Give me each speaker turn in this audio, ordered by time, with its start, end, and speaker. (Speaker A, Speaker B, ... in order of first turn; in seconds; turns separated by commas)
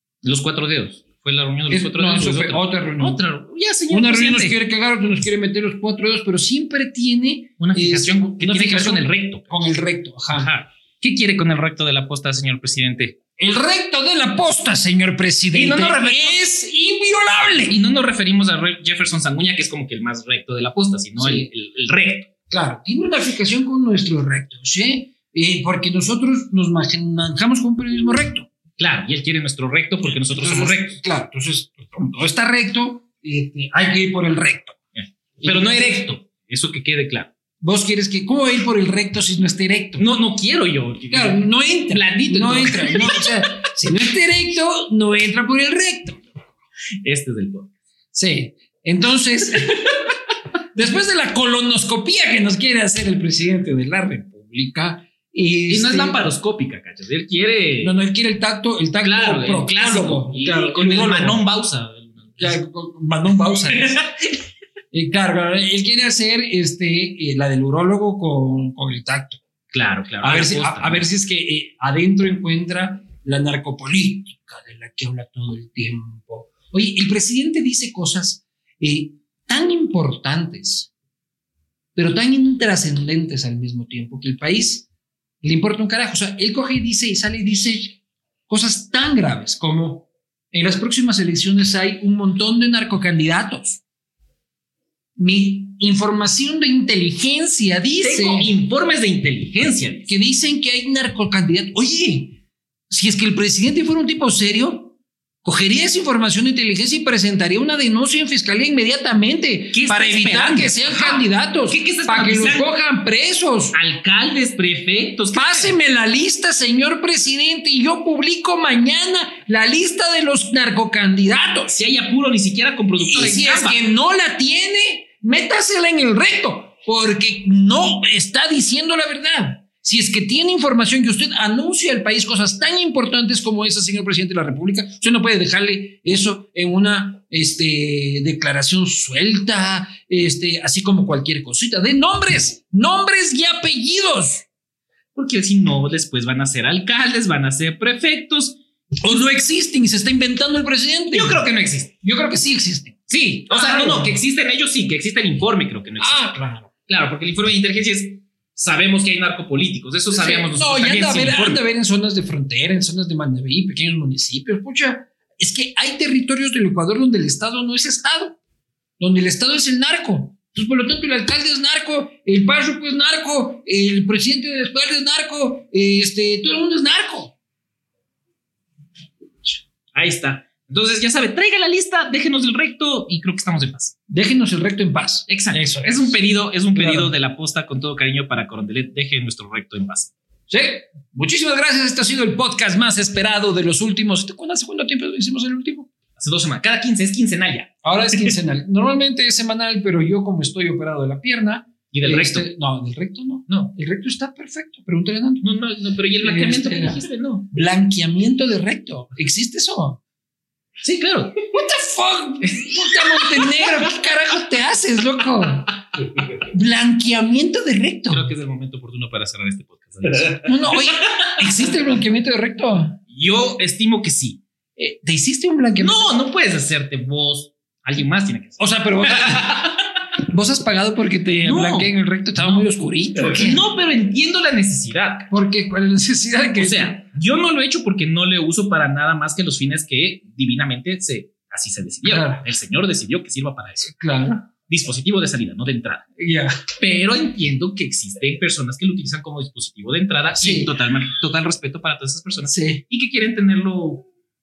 Speaker A: 0.2-4.5, Speaker B: 1.7-3.2, Speaker B: 3.9-10.5, Speaker A: 7.6-9.6, Speaker A: 10.3-13.2, Speaker B: 13.4-17.8, Speaker A: 15.5-16.4, Speaker A: 17.7-22.3, Speaker B: 21.2-21.5, Speaker B: 22.5-28.5, Speaker A: 28.8-31.0, Speaker B: 30.0-34.8, Speaker A: 35.0-37.3, Speaker B: 35.4-36.0, Speaker B: 37.6-40.0, Speaker A: 40.0-43.5, Speaker B: 41.1-46.2, Speaker A: 47.0-47.7, Speaker B: 48.1-50.0, Speaker B: 50.7-56.2, Speaker A: 55.7-57.9, Speaker B: 57.8-61.4, Speaker A: 59.0-62.6, Speaker B: 62.4-64.0, Speaker A: 63.8-64.0, Speaker B: 64.9-69.4, Speaker A: 69.7-71.0, Speaker B: 70.2-80.9, Speaker B: 81.9-84.9, Speaker B: 85.4-93.8, Speaker B: 95.2-98.5, Speaker A: 98.0-100.1, Speaker B: 100.1-113.8, Speaker A: 109.7-112.7, Speaker A: 113.7-115.7, Speaker B: 115.3-121.8, Speaker A: 121.7-123.8, Speaker B: 123.0-144.4, Speaker A: 145.1-148.6, Speaker B: 149.0-151.4, Speaker A: 151.1-151.9, Speaker B: 152.0-154.2, Speaker A: 153.1-156.3, Speaker B: 156.0-156.7, Speaker A: 156.9-161.6, Speaker B: 160.1-168.4, Speaker B: 169.0-177.3, Speaker A: 179.9-183.9, Speaker B: 184.1-187.1, Speaker A: 185.3-190.1, Speaker B: 190.5-195.9, Speaker A: 196.2-198.3, Speaker B: 197.8-205.4, Speaker A: 201.9-202.5, Speaker A: 203.5-203.7, Speaker A: 205.4-207.5, Speaker B: 206.2-210.0, Speaker A: 210.8-211.4, Speaker B: 211.5-215.7, Speaker A: 212.4-213.7, Speaker A: 216.0-216.4, Speaker B: 216.5-218.3, Speaker A: 218.1-220.9, Speaker B: 220.4-223.0, Speaker A: 223.1-224.4, Speaker B: 224.8-226.1, Speaker A: 225.8-229.7, Speaker B: 228.6-229.7, Speaker B: 230.3-233.6, Speaker A: 231.4-232.6, Speaker A: 233.2-235.3, Speaker B: 235.3-237.0, Speaker A: 236.6-243.9, Speaker B: 242.0-242.4, Speaker B: 243.8-244.4, Speaker A: 244.5-246.0, Speaker B: 246.2-246.6, Speaker A: 246.8-254.0, Speaker B: 250.3-250.7, Speaker B: 252.5-252.8